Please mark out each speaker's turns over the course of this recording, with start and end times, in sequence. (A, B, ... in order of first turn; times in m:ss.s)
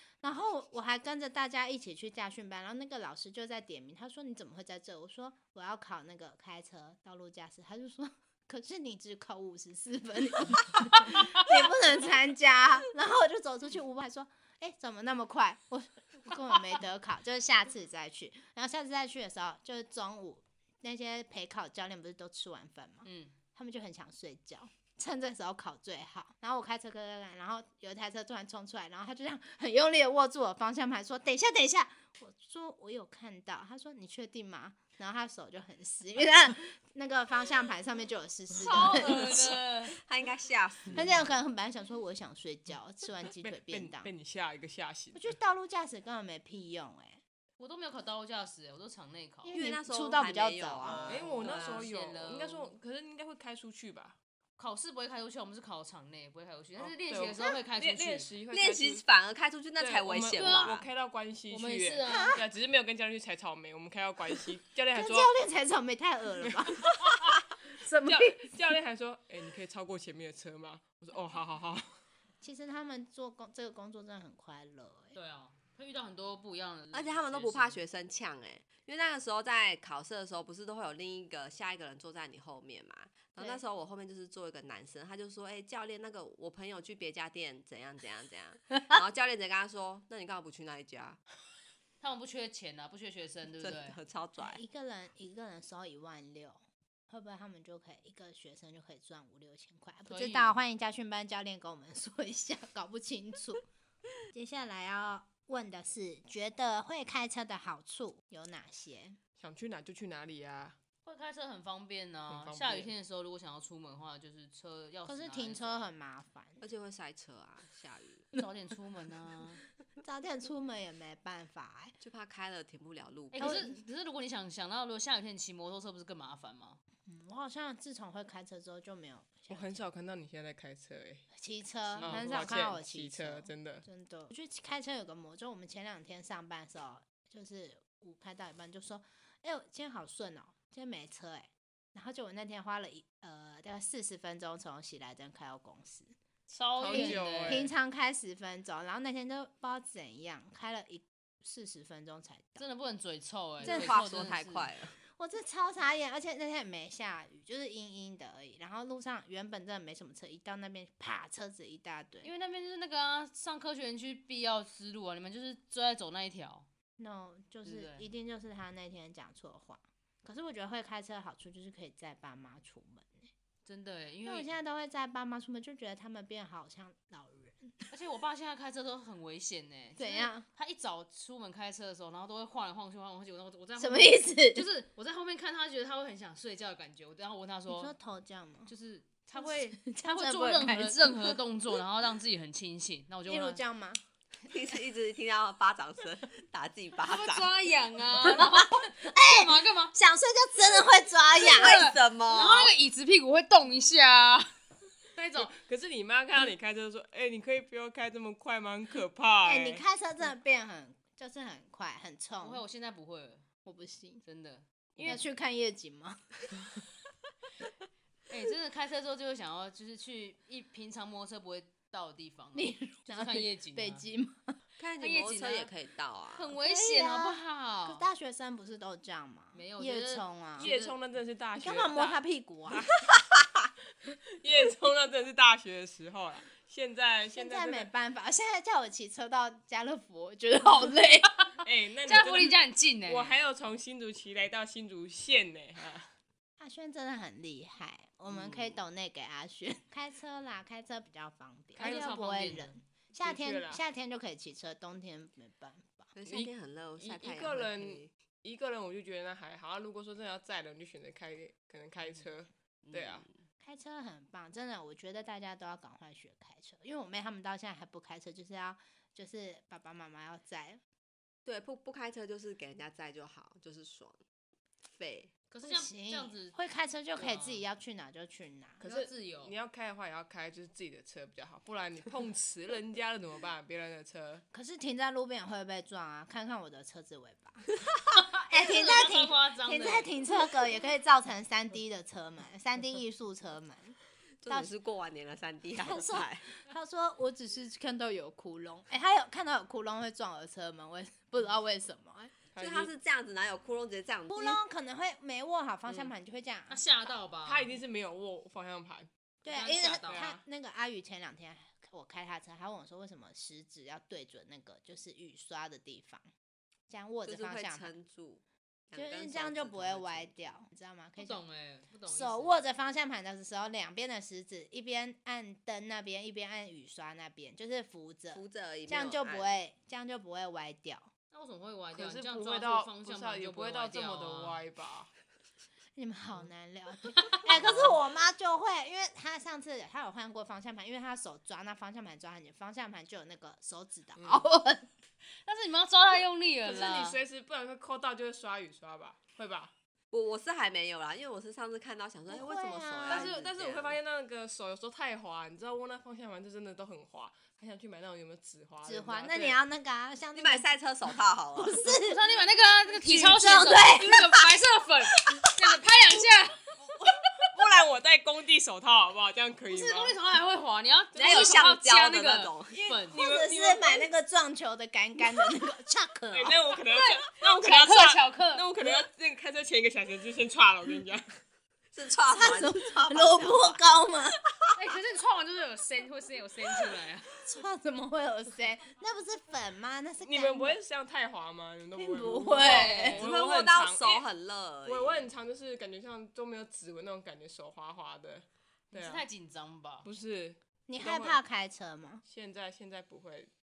0:00.2-0:39.4 A
0:23.0-0:23.3 B
0:38.5-0:40.0 B
0:39.0-0:41.3 C
0:40.9-0:44.1 A
0:43.4-0:45.4 D
0:45.1-0:47.2 A
0:47.6-0:49.6 B
0:49.4-0:51.2 A
0:49.5-0:51.8 C
0:51.0-0:52.7 B
0:51.0-0:54.2 D
0:54.6-0:58.3 B
0:56.8-0:59.0 D
0:58.5-1:00.9 C
0:59.8-1:05.3 D
1:00.3-1:00.8 B
1:01.5-1:02.4 B
1:02.1-1:02.4 A
1:04.9-1:06.9 A
1:06.4-1:07.3 D
1:07.8-1:08.5 A
1:08.0-1:12.0 D
1:12.4-1:15.1 A
1:15.1-1:17.8 B
1:16.9-1:31.2 C
1:32.0-1:34.0 B
1:33.6-1:34.6 C
1:34.4-1:43.6 A
1:40.1-1:40.6 B
1:44.3-1:49.2 A
1:49.4-1:50.8 D
1:51.0-1:55.9 B
1:52.3-1:52.9 D
1:55.0-1:56.6 A
1:56.6-1:58.3 C
1:58.4-1:59.6 B
2:00.0-2:01.9 A
2:02.0-2:03.6 C
2:03.3-2:06.8 B
2:03.4-2:03.8 A
2:07.0-2:09.8 A
2:09.5-2:11.3 D
2:11.3-2:26.1 A
2:11.9-2:12.7 B
2:12.0-2:13.8 D
2:26.5-2:27.7 B
2:26.8-2:27.7 D
2:26.9-2:32.6 A
2:32.6-2:34.7 B
2:33.6-2:34.3 A
2:33.6-2:35.0 C
2:35.1-2:42.3 A
2:42.2-2:46.7 B
2:47.0-2:53.3 A
2:47.6-2:48.1 B
2:53.6-2:54.5 B
2:54.2-2:57.8 A
2:57.9-3:07.9 B
3:00.0-3:00.4 A
3:03.8-3:04.6 A
3:07.7-3:08.7 A
3:08.7-3:13.6 B
3:09.3-3:11.4 A
3:13.2-3:14.0 A
3:14.4-3:17.5 C
3:17.0-3:19.9 B
3:18.2-3:21.9 A
3:21.3-3:22.7 C
3:21.4-3:24.5 B
3:25.1-3:25.5 B
3:25.4-3:29.8 D
3:29.4-3:32.6 A
3:32.4-3:33.4 B
3:33.6-3:34.2 A
3:34.2-3:35.2 B
3:35.0-3:36.2 A
3:38.3-3:44.0 B
3:42.5-3:44.6 A
3:44.8-3:46.5 C
3:45.0-3:45.7 B
3:46.3-3:48.0 B
3:46.6-3:50.7 A
3:49.5-3:51.0 B
3:50.6-3:52.2 D
3:51.6-3:52.9 A
3:54.1-3:57.9 D
3:57.3-4:01.3 A
4:01.6-4:06.1 D
4:02.0-4:03.4 B
4:06.6-4:16.1 A
4:08.3-4:08.7 C
4:11.8-4:12.8 B
4:11.8-4:12.2 D
4:13.2-4:13.8 D
4:16.2-4:18.1 C
4:16.3-4:23.2 D
4:22.8-4:23.4 C
4:23.6-4:30.8 A
4:31.4-4:34.2 C
4:34.8-4:35.3 C
4:35.5-4:36.6 B
4:35.6-4:38.8 A
4:37.2-4:37.6 B
4:38.8-4:44.4 D
4:38.8-4:39.5 B
4:44.5-4:47.7 A
4:48.3-4:50.1 B
4:48.5-4:54.0 A
4:54.4-4:56.5 C
4:55.8-5:02.3 A
5:02.5-5:02.9 D
5:02.6-5:04.6 C
5:04.3-5:06.8 A
5:06.7-5:07.7 B
5:07.4-5:09.1 D
5:09.4-5:16.3 A
5:09.5-5:10.2 B
5:10.1-5:10.4 D
5:16.9-5:17.9 A
5:17.2-5:20.6 C
5:18.9-5:21.4 A
5:21.2-5:22.6 B
5:22.1-5:31.1 A
5:28.3-5:29.6 C
5:31.3-5:34.6 B
5:31.9-5:35.1 D
5:36.0-5:44.9 A
5:37.1-5:37.4 B
5:37.5-5:38.0 C
5:44.2-5:44.4 D
5:45.4-5:47.2 B
5:46.6-5:49.7 D
5:50.1-5:54.0 C
5:52.3-5:53.3 A
5:53.1-5:59.6 D
5:58.8-6:00.7 A
6:00.3-6:02.0 C
6:01.6-6:02.2 A
6:01.9-6:06.7 B
6:02.9-6:04.2 A
6:07.4-6:10.2 D
6:09.7-6:13.2 B
6:11.1-6:12.9 C
6:11.2-6:11.6 D
6:12.9-6:14.0 D
6:13.1-6:16.6 A
6:16.3-6:21.2 D
6:17.0-6:18.6 B
6:21.9-6:23.8 C
6:22.3-6:24.4 A
6:24.7-6:27.4 B
6:27.4-6:30.8 A
6:30.2-6:34.2 D
6:32.0-6:33.2 A
6:32.6-6:33.2 B
6:33.0-6:35.3 C
6:34.8-6:39.2 D
6:38.9-6:40.1 B
6:40.0-6:41.4 D
6:40.9-6:42.2 A
6:42.2-6:43.5 D